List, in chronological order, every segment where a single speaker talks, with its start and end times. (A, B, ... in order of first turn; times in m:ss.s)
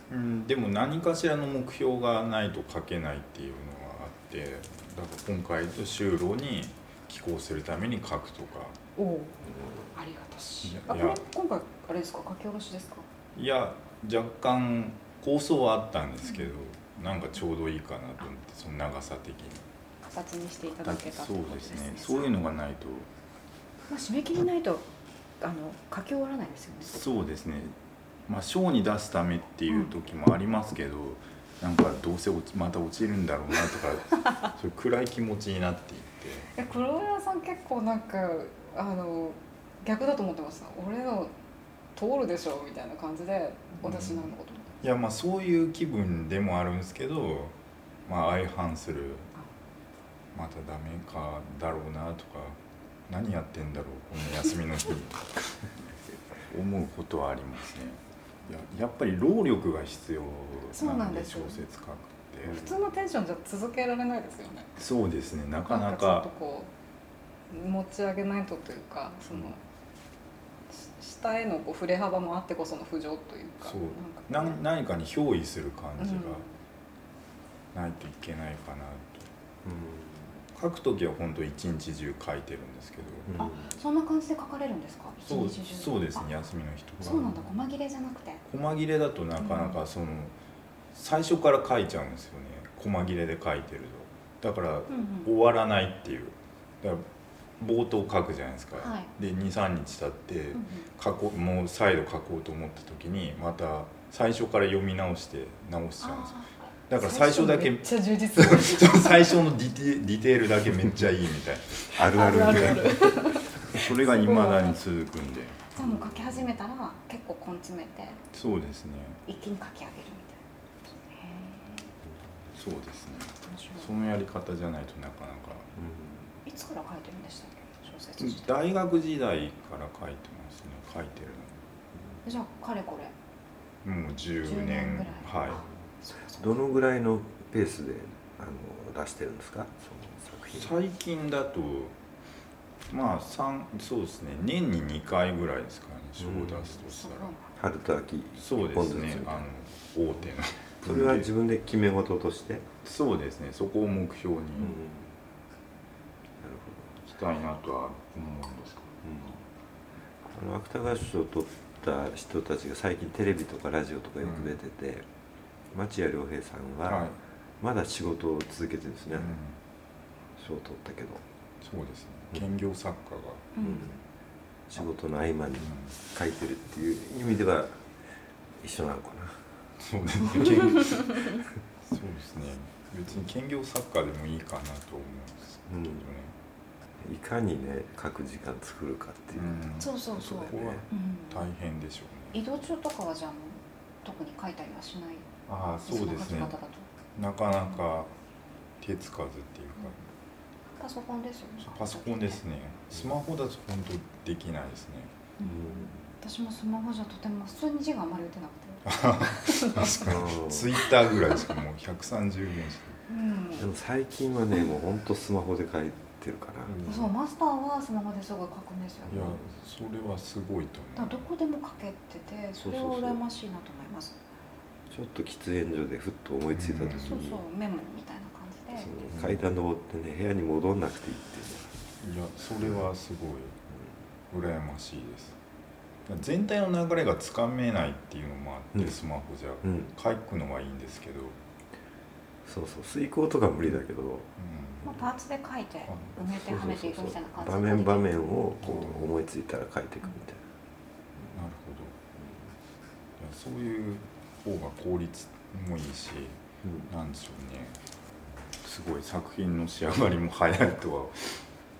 0:00.1-0:08.8 A
0:09.0-0:13.1 B
0:10.6-0:11.2 A
0:13.4-0:19.7 A
0:20.0-0:22.3 B
0:20.7-0:23.1 A
0:23.9-0:24.9 B
0:25.4-0:27.0 B
0:26.8-0:36.8 A
0:36.6-0:41.3 B
0:42.0-0:44.7 B
0:43.8-0:44.3 A
0:44.8-0:47.6 A
0:48.1-0:49.3 A
0:50.3-1:03.0 A
1:00.7-1:01.6 B
1:02.5-1:04.8 B
1:04.8-1:06.3 A
1:05.7-1:06.7 B
1:07.5-1:09.6 B
1:10.7-1:14.6 B
1:13.6-1:16.5 A
1:16.0-1:16.5 B
1:17.7-1:19.3 A
1:19.6-1:20.4 C
1:20.6-1:23.3 A
1:23.3-1:23.8 C
1:23.4-1:26.3 B
1:25.2-1:27.7 A
1:27.0-1:28.4 B
1:28.5-1:30.3 A
1:29.4-1:29.8 B
1:30.9-1:37.1 A
1:34.9-1:35.3 B
1:37.6-1:52.9 A
1:38.8-1:39.1 B
1:40.5-1:40.9 B
1:46.0-1:49.4 B
1:51.9-1:53.1 C
1:51.9-1:54.8 B
1:53.7-1:55.7 A
1:55.7-1:58.2 B
1:55.8-1:56.5 C
1:58.3-1:59.2 A
1:59.3-2:01.9 B
2:02.5-2:05.7 A
2:03.4-2:03.9 B
2:05.8-2:06.3 C
2:06.4-2:08.6 B
2:08.2-2:11.6 A
2:12.2-2:13.1 B
2:13.8-2:15.6 A
2:14.4-2:16.7 B
2:16.4-2:20.7 C
2:20.6-2:22.0 A
2:22.9-2:27.4 A
2:26.2-2:26.8 C
2:26.9-2:27.5 B
2:27.6-2:29.5 C
2:28.4-2:31.3 A
2:30.8-2:32.6 C
2:32.8-2:34.8 A
2:34.6-2:35.1 C
2:36.4-2:37.0 C
2:37.0-2:39.3 A
2:39.0-2:39.4 C
2:40.3-2:45.1 C
2:44.2-2:44.6 A
2:45.7-2:47.1 C
2:46.9-2:47.2 A
2:47.6-2:49.4 C
2:49.1-2:49.6 A
2:50.4-2:51.2 C
2:51.6-2:53.6 A
2:53.6-2:53.9 B
2:53.6-2:54.0 C
2:54.7-2:57.8 C
2:55.6-2:56.0 A
2:58.6-2:59.4 C
2:59.8-3:06.4 A
3:05.7-3:06.1 C
3:07.0-3:10.9 C
3:09.3-3:12.6 A
3:09.8-3:11.5 B
3:12.3-3:15.3 B
3:15.5-3:16.6 A
3:15.8-3:16.9 B
3:17.2-3:18.1 A
3:18.8-3:20.0 A
3:20.8-3:22.4 B
3:21.6-3:25.1 A
3:25.4-3:30.0 B
3:25.4-3:26.1 C
3:28.8-3:33.0 A
3:30.0-3:30.9 C
3:33.1-3:33.7 B
3:33.6-3:37.1 C
3:36.9-3:39.4 B
3:39.1-3:39.5 C
3:39.1-3:41.3 A
3:41.0-3:44.2 B
3:42.6-3:43.2 C
3:44.9-3:47.4 C
3:46.5-3:47.2 A
3:47.0-3:48.9 B
3:48.7-3:51.7 C
3:49.1-3:49.4 A
3:52.0-3:53.6 A
3:54.3-3:55.4 A
3:56.1-4:01.4 A
3:59.6-3:59.9 C
4:02.4-4:04.3 C
4:04.4-4:05.1 A
4:04.8-4:08.4 B
4:05.9-4:06.2 A
4:06.2-4:10.4 C
4:08.6-4:09.1 A
4:11.3-4:12.0 A
4:12.2-4:12.5 C
4:13.2-4:17.8 A
4:16.6-4:16.9 C
4:18.6-4:21.4 A